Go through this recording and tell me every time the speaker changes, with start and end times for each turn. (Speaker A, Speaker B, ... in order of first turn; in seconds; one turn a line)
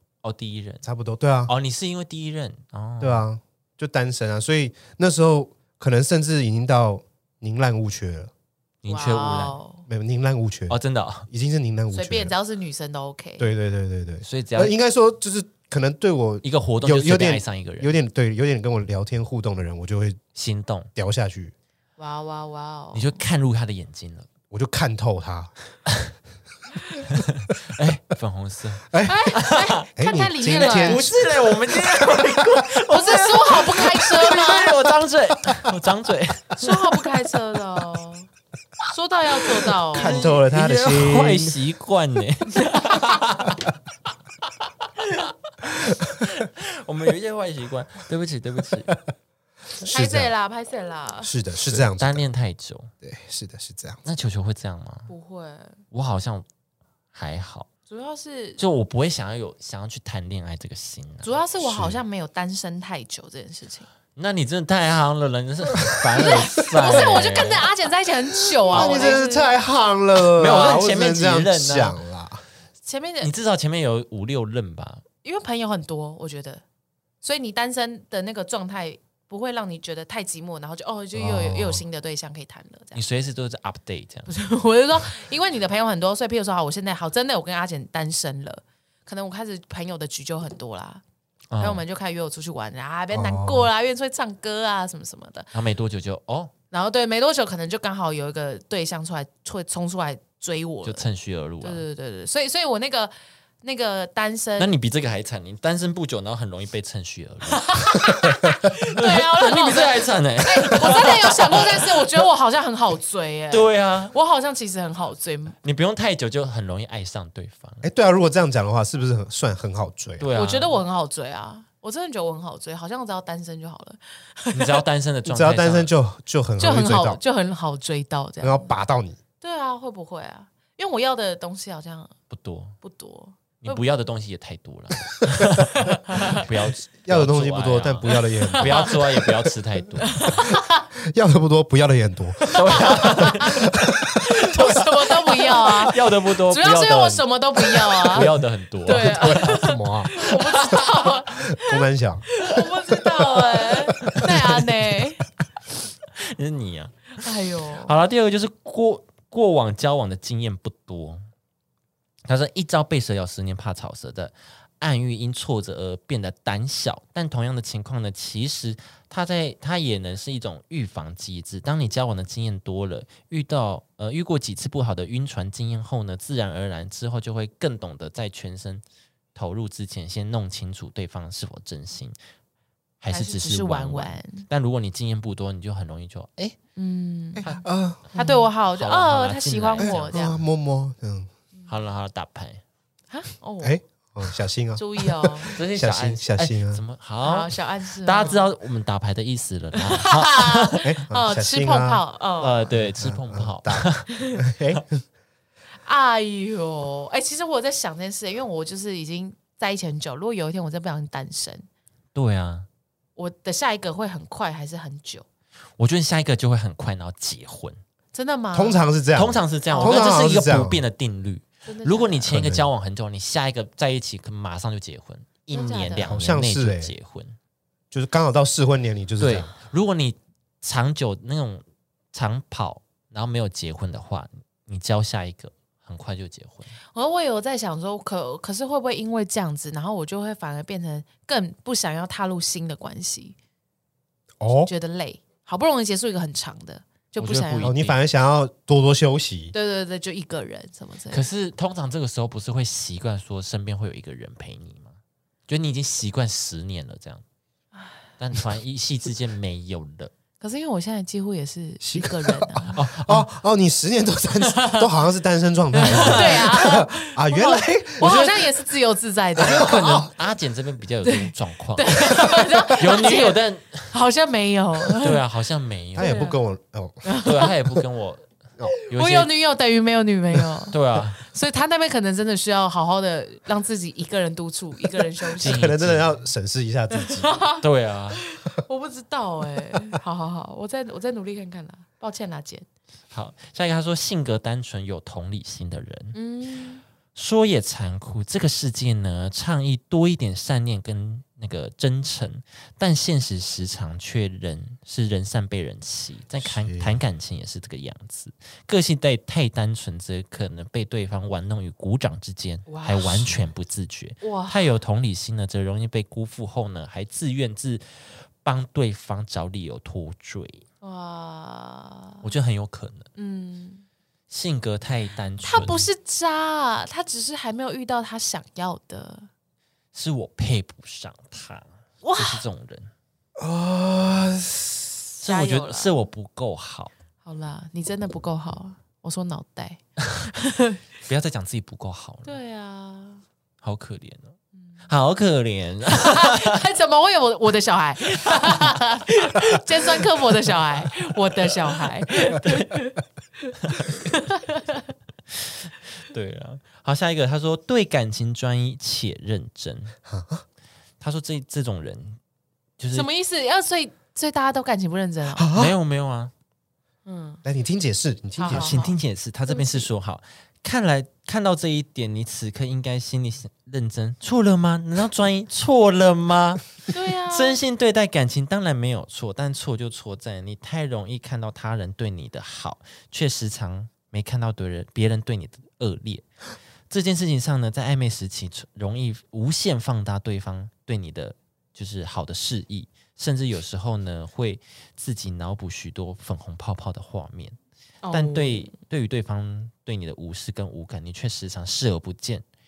Speaker A: 0.2-0.8
Speaker B: 0.8-1.5
Speaker A: 1.5-3.2
Speaker B: 3.0-8.3
Speaker A: 8.8-9.6
Speaker C: 8.9-9.8
Speaker B: 9.9-10.8
Speaker A: 10.7-11.3
Speaker B: 11.3-12.3
Speaker C: 11.9-13.5
Speaker B: 13.4-20.2
Speaker A: 14.2-14.7
Speaker A: 16.4-18.0
Speaker A: 20.4-20.9
Speaker B: 20.9-21.5
Speaker C: 22.0-23.2
Speaker A: 22.9-24.3
Speaker B: 24.5-25.5
Speaker A: 27.0-29.9
Speaker B: 28.9-29.2
Speaker C: 29.0-31.1
Speaker B: 29.9-31.2
Speaker A: 30.5-36.7
Speaker C: 32.9-34.9
Speaker C: 36.6-38.3
Speaker C: 38.9-40.2
Speaker B: 39.9-41.6
Speaker A: 39.9-43.7
Speaker C: 42.6-43.2
Speaker A: 44.5-45.3
Speaker A: 46.1-48.9
Speaker B: 49.8-50.3
Speaker C: 49.9-51.3
Speaker B: 51.2-52.2
Speaker A: 51.6-52.9
Speaker B: 53.0-54.0
Speaker A: 54.0-55.1
Speaker C: 55.1-55.8
Speaker A: 55.9-56.5
Speaker A: 57.1-57.7
Speaker C: 57.9-58.6
Speaker A: 58.6-61.3
Speaker C: 61.2-63.9
Speaker B: 61.6-62.0
Speaker A: 64.2-67.7
Speaker C: 66.2-69.5
Speaker B: 68.7-72.4
Speaker A: 68.7-69.2
Speaker A: 70.3-72.0
Speaker C: 72.8-73.3
Speaker A: 73.2-75.0
Speaker C: 75.2-76.6
Speaker C: 77.2-83.0
Speaker B: 81.1-81.8
Speaker A: 82.9-84.3
Speaker C: 84.3-91.0
Speaker A: 91.5-91.8
Speaker C: 91.6-95.5
Speaker B: 93.1-93.7
Speaker A: 95.5-96.5
Speaker C: 96.7-101.0
Speaker A: 100.8-101.8
Speaker C: 101.6-104.7
Speaker A: 104.6-112.2
Speaker C: 107.5-115.6
Speaker A: 113.5-114.1
Speaker A: 115.6-117.9
Speaker B: 117.8-120.3
Speaker A: 120.2-120.8
Speaker C: 120.3-124.8
Speaker A: 124.5-125.9
Speaker B: 125.2-127.2
Speaker C: 126.6-128.7
Speaker B: 128.4-129.2
Speaker C: 129.4-132.1
Speaker A: 132.3-132.8
Speaker C: 132.8-133.9
Speaker A: 133.6-140.4
Speaker C: 135.9-136.4
Speaker B: 137.0-139.0
Speaker C: 138.1-138.9
Speaker C: 140.0-140.9
Speaker B: 140.4-144.2
Speaker C: 142.5-143.7
Speaker A: 142.5-151.1
Speaker C: 144.2-148.3
Speaker B: 148.9-150.2
Speaker C: 148.9-155.2
Speaker B: 151.4-152.3
Speaker B: 153.0-154.4
Speaker A: 154.0-154.6
Speaker A: 156.1-157.2
Speaker C: 157.2-157.9
Speaker A: 157.8-161.2
Speaker A: 162.2-178.8
Speaker A: 179.3-182.2
Speaker A: 183.0-186.6
Speaker C: 183.1-184.5
Speaker C: 186.8-187.4
Speaker B: 187.4-188.2
Speaker A: 187.4-190.3
Speaker C: 188.1-190.4
Speaker B: 189.8-191.3
Speaker A: 191.7-192.6
Speaker C: 193.1-193.8
Speaker B: 193.6-196.8
Speaker C: 194.8-195.6
Speaker A: 195.5-200.9
Speaker C: 197.2-198.4
Speaker C: 199.8-202.7
Speaker B: 200.8-202.0
Speaker A: 202.4-204.1
Speaker B: 202.7-205.0
Speaker C: 204.2-204.4
Speaker C: 205.8-211.7
Speaker A: 212.1-212.7
Speaker C: 213.2-215.2
Speaker A: 215.8-217.8
Speaker C: 218.1-218.8
Speaker B: 218.5-220.8
Speaker A: 219.1-227.4
Speaker C: 219.7-220.2
Speaker C: 221.7-222.3
Speaker B: 222.3-222.7
Speaker C: 225.5-226.2
Speaker B: 226.0-226.9
Speaker B: 227.9-229.5
Speaker A: 229.2-236.7
Speaker C: 236.9-243.4
Speaker B: 244.4-244.7
Speaker C: 244.5-247.7
Speaker A: 247.2-248.0
Speaker B: 247.6-249.5
Speaker C: 249.5-251.3
Speaker A: 251.1-257.2
Speaker A: 258.2-260.1
Speaker C: 260.4-262.8
Speaker B: 261.8-268.5
Speaker A: 262.7-263.3
Speaker C: 264.4-264.9
Speaker A: 265.8-266.5
Speaker C: 265.8-270.0
Speaker B: 269.4-270.1
Speaker A: 269.4-273.9
Speaker C: 271.0-275.2
Speaker A: 274.9-276.2
Speaker B: 275.9-277.0
Speaker C: 276.0-276.4
Speaker C: 277.0-277.5
Speaker A: 277.2-278.3
Speaker A: 278.9-279.3
Speaker C: 278.9-285.7
Speaker A: 280.7-281.2
Speaker B: 285.4-287.4
Speaker A: 285.4-286.2
Speaker C: 286.9-292.6
Speaker A: 287.6-288.2
Speaker A: 293.1-296.2
Speaker C: 296.1-296.8
Speaker A: 297.1-320.6
Speaker B: 306.4-306.9
Speaker C: 312.7-313.4
Speaker C: 314.2-314.7
Speaker C: 320.8-322.3
Speaker A: 322.2-323.1
Speaker C: 323.1-323.8
Speaker A: 324.3-325.9
Speaker C: 325.4-329.3
Speaker A: 329.9-332.9
Speaker C: 332.0-332.4
Speaker B: 333.4-335.1
Speaker A: 335.2-336.9
Speaker C: 335.2-336.0
Speaker C: 337.2-340.8
Speaker A: 341.1-342.4
Speaker C: 342.2-343.2
Speaker A: 343.6-346.6
Speaker C: 344.6-344.9
Speaker C: 345.9-354.9
Speaker A: 348.2-348.7
Speaker A: 351.5-352.8
Speaker A: 353.6-354.1
Speaker A: 355.3-359.9
Speaker B: 360.1-360.4
Speaker A: 361.0-362.2
Speaker A: 362.8-363.1
Speaker C: 362.9-365.5
Speaker B: 365.3-365.8
Speaker A: 365.5-366.3
Speaker C: 367.1-367.4
Speaker B: 367.4-368.8
Speaker C: 368.4-369.9
Speaker A: 368.5-386.3
Speaker C: 376.9-377.6
Speaker A: 386.9-397.6
Speaker C: 398.0-398.7
Speaker A: 398.1-402.4